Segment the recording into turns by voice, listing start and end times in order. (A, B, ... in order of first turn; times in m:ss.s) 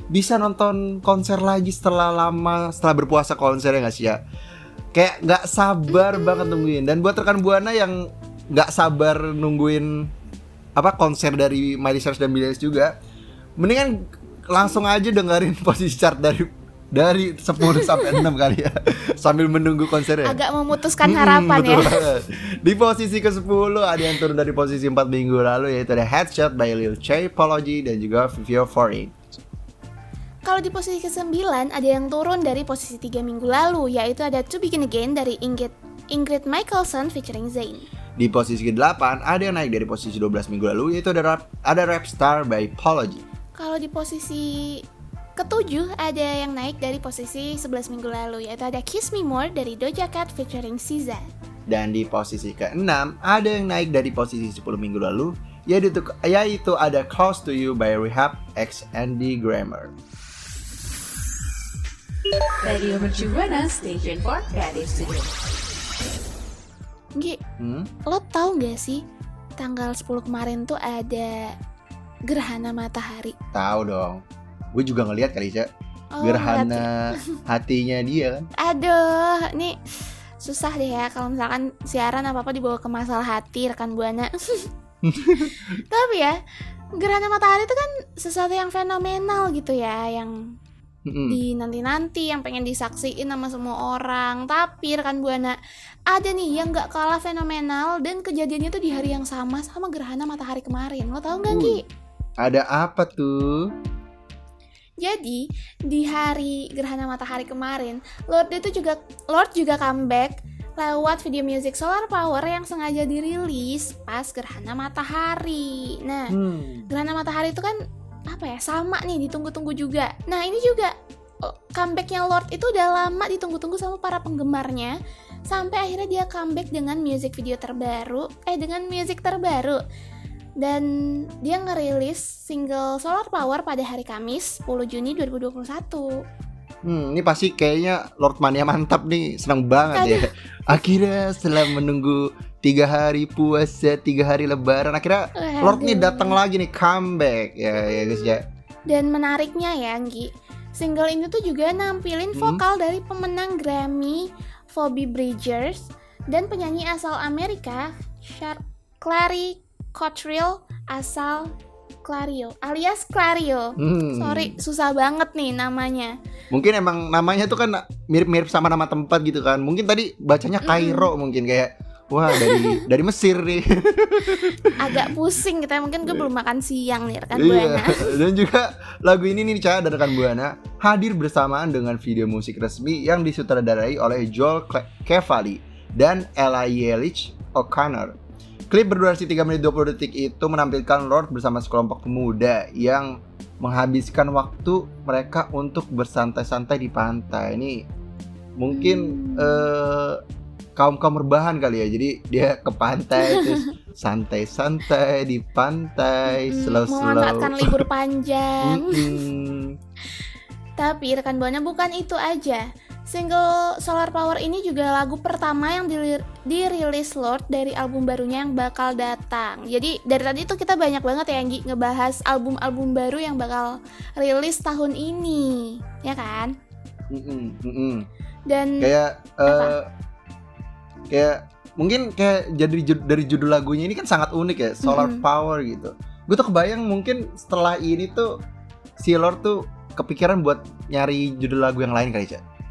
0:00.1-0:04.2 A
0:04.9-0:10.1 A
0:05.9-0:06.7 B
0:10.8-0:12.9 A
0:13.6-0:20.4 A
0:20.2-0:22.1 B
0:21.0-0:29.2 A
0:30.4-0:37.9 B
0:38.2-0:43.2 A
0:43.6-0:44.8 B
0:45.4-0:51.3 B
0:51.7-0:59.9 A
1:02.6-1:05.3 C
1:07.6-1:07.9 A
1:08.0-1:09.0 B
1:09.6-1:11.5 B
1:12.3-1:13.3 B
1:13.5-1:14.2 A
1:14.7-1:15.7 A
1:16.1-1:17.2 B
1:16.2-1:18.5 A
1:18.6-1:19.8 B
1:20.4-1:24.7 B
1:25.0-1:25.5 A
1:25.8-1:26.4 B
1:27.0-1:30.5 B
1:31.0-1:31.4 A
1:31.3-1:35.6 B
1:36.1-1:41.8 B
1:41.5-1:41.8 A
1:42.4-1:43.7 A
1:45.0-1:56.3 B
1:56.3-1:56.9 A
1:56.9-1:57.8 B
1:58.3-2:05.0 B
2:05.5-2:09.8 B
2:10.6-2:16.2 B
2:16.8-2:28.4 A
2:19.9-2:20.3 B
2:25.4-2:26.4 B
2:27.8-2:28.3 B
2:28.9-2:41.5 B
2:32.3-2:32.6 A
2:42.0-2:46.1 B
2:43.8-2:44.6 A
2:46.5-2:55.1 A
2:50.6-2:51.1 B
2:52.3-2:52.8 B
2:54.8-2:58.2 B
2:57.3-3:08.2 A
3:08.7-3:17.8 A
3:18.6-3:20.2 A
3:18.7-3:19.7 B
3:20.8-3:27.8 A
3:23.2-3:23.7 B
3:26.3-3:29.2 B
3:28.6-3:29.7 A
3:30.8-3:46.5 B
3:47.1-3:48.1 A
3:48.5-3:48.9 B
3:48.8-3:49.9 A
3:49.4-3:49.7 B
3:51.1-3:58.3 A
3:54.8-3:55.2 B
3:59.0-4:02.4 A